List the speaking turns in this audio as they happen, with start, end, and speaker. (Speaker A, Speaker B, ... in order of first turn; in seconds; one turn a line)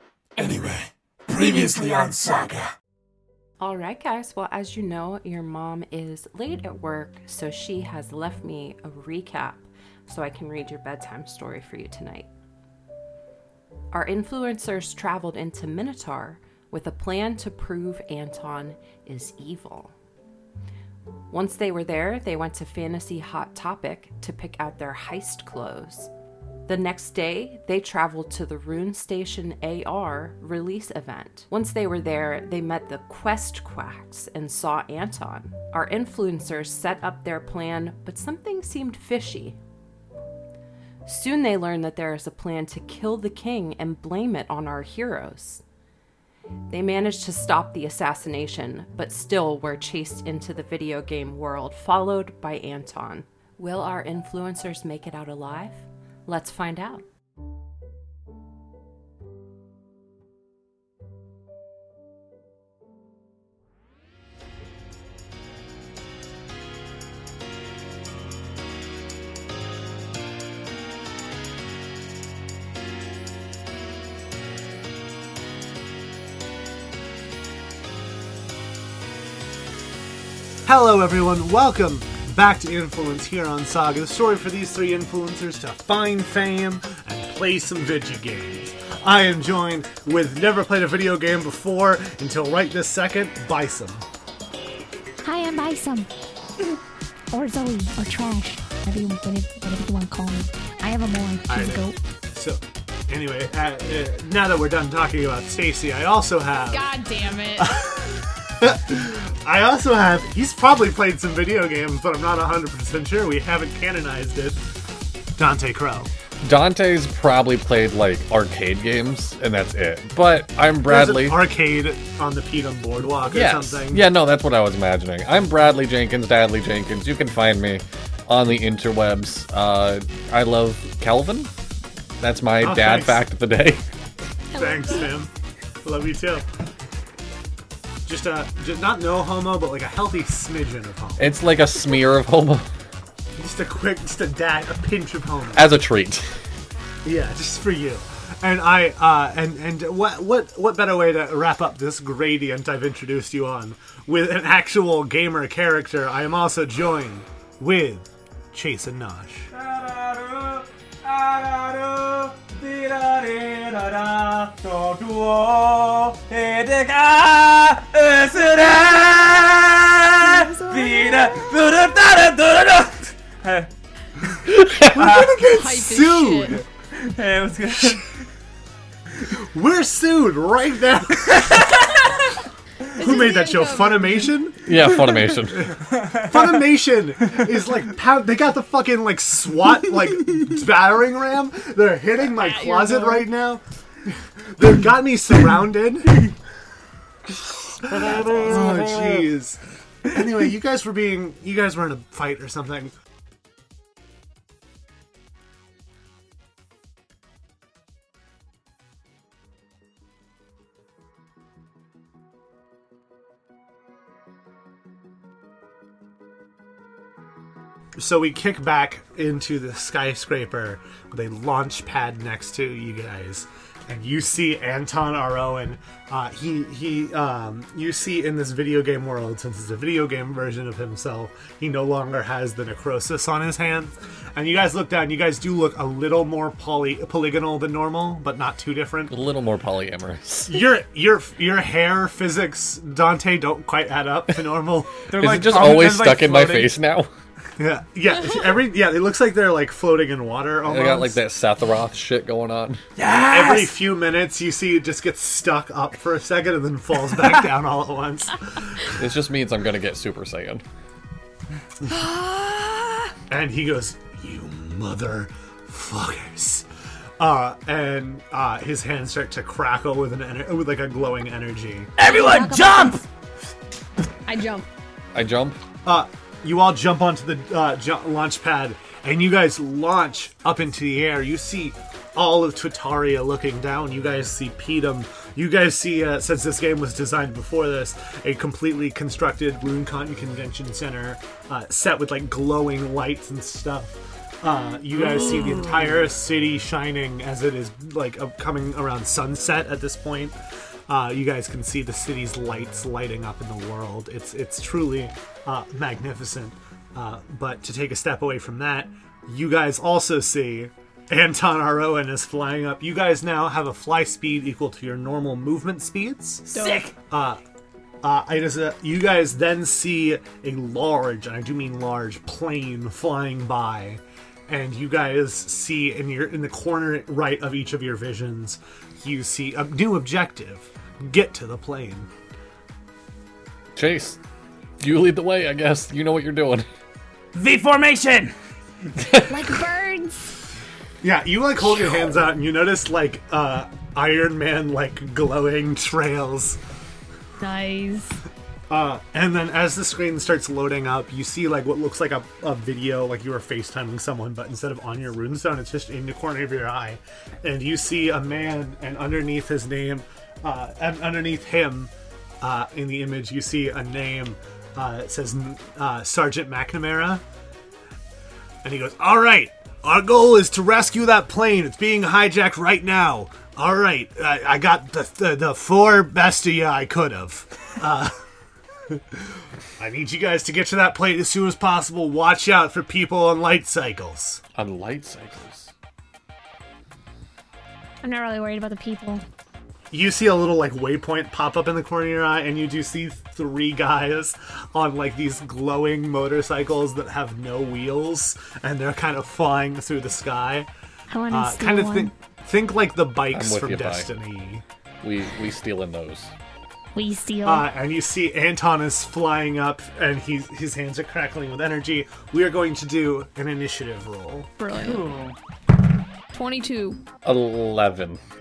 Speaker A: 0.4-2.7
Speaker B: 3.6-12.3
Speaker B: 13.9-19.9
Speaker B: 21.3-26.1
Speaker B: 26.7-39.6
Speaker B: 41.0-45.6
Speaker B: 46.7-57.0
Speaker C: 80.7-94.0
Speaker D: 95.2-96.1
Speaker D: 97.3-102.0
Speaker C: 101.5-106.9
Speaker E: 106.7-107.9
Speaker C: 107.6-114.6
Speaker C: 115.4-116.1
Speaker F: 116.4-121.4
Speaker C: 120.8-124.1
Speaker F: 123.3-131.5
Speaker F: 132.2-133.8
Speaker C: 132.6-133.2
Speaker C: 134.5-135.3
Speaker D: 134.6-135.1
Speaker C: 135.8-136.4
Speaker C: 138.1-141.3
Speaker F: 141.2-142.7
Speaker C: 143.4-145.7
Speaker F: 145.6-146.3
Speaker C: 147.0-159.5
Speaker G: 159.5-173.7
Speaker E: 170.2-171.5
Speaker F: 174.5-175.2
Speaker C: 174.9-176.7
Speaker G: 174.9-175.4
Speaker E: 175.5-176.6
Speaker G: 176.9-178.0
Speaker C: 179.3-181.8
Speaker G: 181.3-181.9
Speaker E: 182.9-184.3
Speaker C: 183.0-184.8
Speaker F: 184.7-185.8
Speaker C: 185.3-196.3
Speaker G: 185.9-186.6
Speaker E: 192.3-193.3
Speaker C: 197.8-202.9
Speaker F: 197.9-199.2
Speaker G: 198.4-199.1
Speaker C: 218.0-239.1
Speaker F: 239.1-240.6
Speaker C: 240.5-245.1
Speaker G: 245.1-246.8
Speaker F: 245.2-247.1
Speaker C: 247.6-251.2
Speaker F: 250.6-252.8
Speaker G: 253.0-253.8
Speaker C: 253.3-258.9
Speaker F: 258.9-260.6
Speaker C: 263.3-266.7
Speaker C: 267.2-271.9
Speaker G: 272.0-273.0
Speaker D: 272.0-273.0
Speaker E: 274.3-274.7
Speaker F: 275.1-275.6
Speaker C: 275.9-300.3
Speaker G: 295.4-295.9
Speaker C: 300.9-317.4
Speaker E: 316.5-316.9
Speaker G: 316.6-316.9
Speaker C: 318.0-332.1
Speaker F: 333.8-334.2
Speaker F: 334.8-336.7
Speaker G: 337.3-338.3
Speaker F: 339.0-339.6
Speaker D: 339.3-340.3
Speaker C: 341.0-346.6
Speaker E: 347.4-348.1
Speaker C: 348.7-367.2
Speaker C: 368.6-378.2
Speaker C: 379.8-384.4
Speaker F: 384.6-385.7
Speaker D: 388.0-389.2
Speaker C: 389.9-400.7
Speaker D: 401.1-402.1
Speaker C: 401.3-404.6
Speaker F: 403.3-404.1
Speaker F: 405.0-406.3
Speaker D: 406.9-407.7
Speaker C: 407.4-414.5
Speaker E: 414.6-415.1
Speaker G: 414.8-415.4
Speaker E: 416.3-417.0
Speaker F: 417.2-418.2